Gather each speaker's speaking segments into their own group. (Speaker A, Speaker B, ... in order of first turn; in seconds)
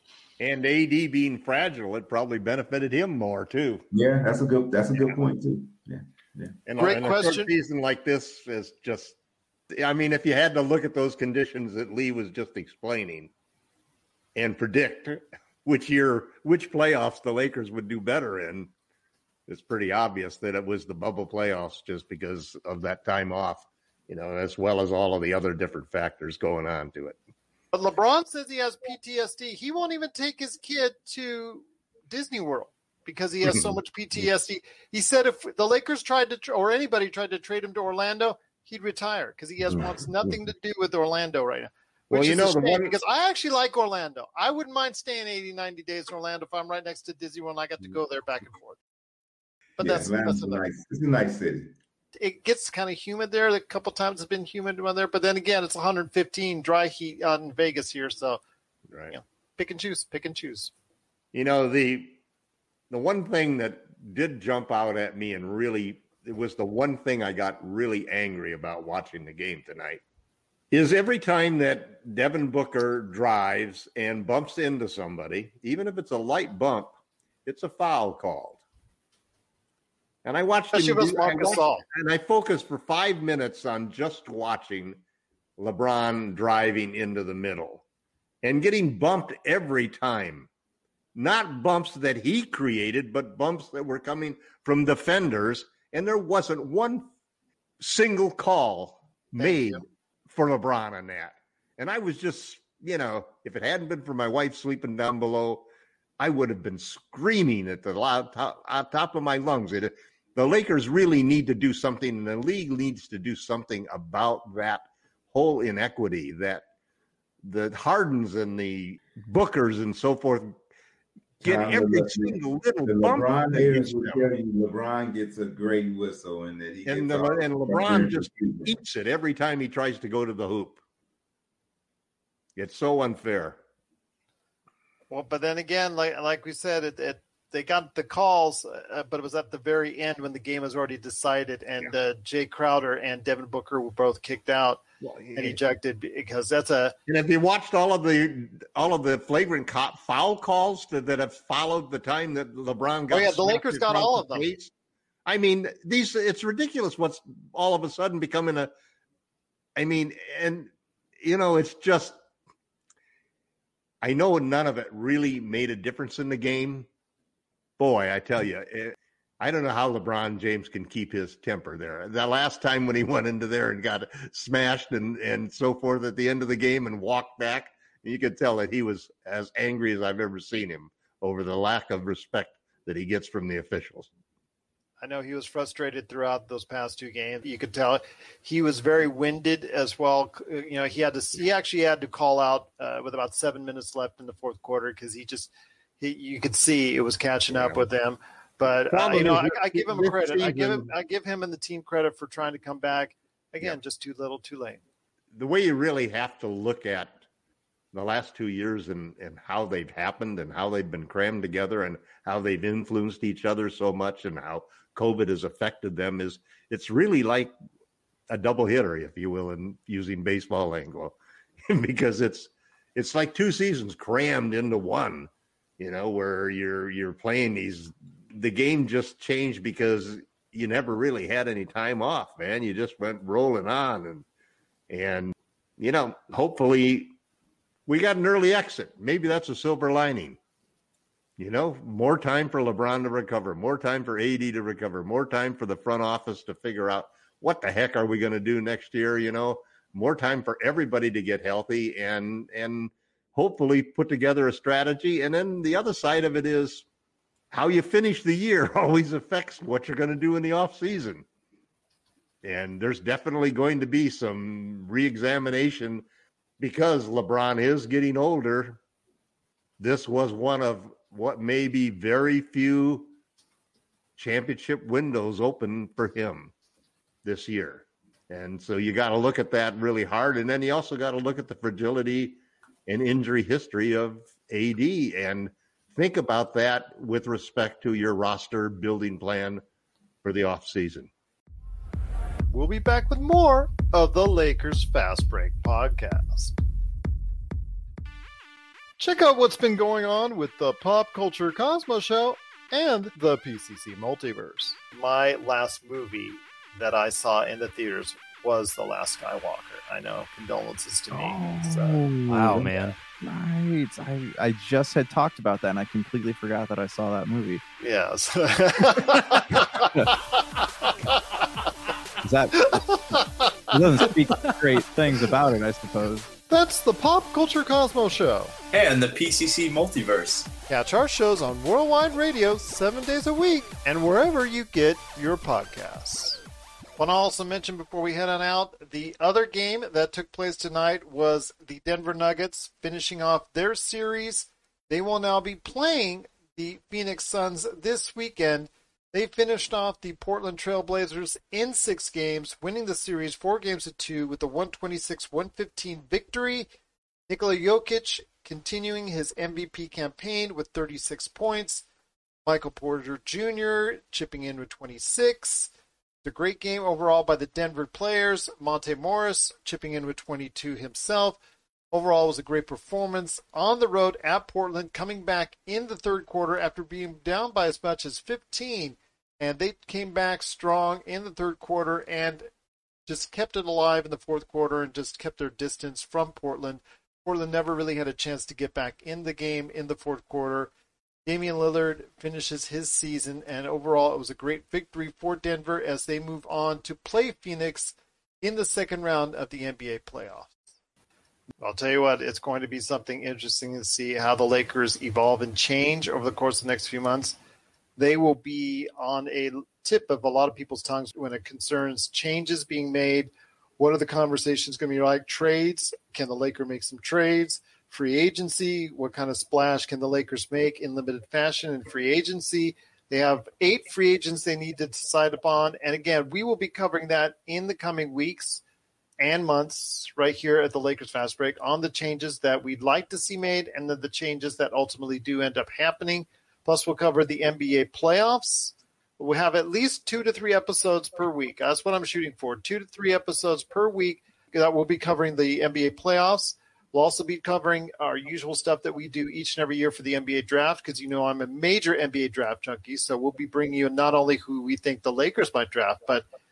Speaker A: 0.4-3.9, 6.7-9.2, 9.7-13.3, 14.4-18.7, 19.5-27.2, 33.5-33.8, 42.1-42.9, 58.9-59.1, 61.3-62.2, 62.9-70.0, 70.7-76.9, 77.5-78.6, 80.2-85.0, 85.6-87.8, 88.4-90.5, 91.1-97.1, 97.8-105.6, 106.2-116.7, 117.4-120.5, 121.4-124.2, 126.8-130.8, 132.6-133.6, 145.0-145.6, 147.1-154.7, 155.2-158.7, 159.8-160.7, 161.2-162.2, 164.0-166.9, 167.8-184.1, 197.5-197.8, 198.9-200.9, 205.3-207.2, 207.9-217.5, 218.3-221.2, 221.7-234.2, 234.9-237.1, 237.9-240.4, 241.4-256.9, 257.5-261.2, 262.4-266.0, 266.6-268.8, 269.8-273.1, 274.1-276.5, 277.2-289.6, 290.2-291.1
Speaker B: 3.9-6.6, 49.8-51.7, 121.4-128.7
Speaker C: 6.8-7.5, 27.7-48.8, 49.8-50.7, 52.1-58.4, 59.1-60.7, 80.7-81.8, 99.4-99.8, 135.1-144.8, 145.3-146.9, 153.1-154.5, 185.0-204.8, 292.5-296.5, 299.0-312.9, 317.8-320.4, 322.6-324.4, 326.5-328.5, 330.7-336.4, 337.0-356.7, 357.3-361.9, 362.5-365.7, 366.2-371.4, 371.9-382.5, 383.1-390.7, 391.2-400.6, 401.6-407.4, 408.0-428.6, 429.2-456.2
Speaker D: 311.1-317.6, 322.2-326.3
Speaker E: 312.5-312.9, 328.7-330.5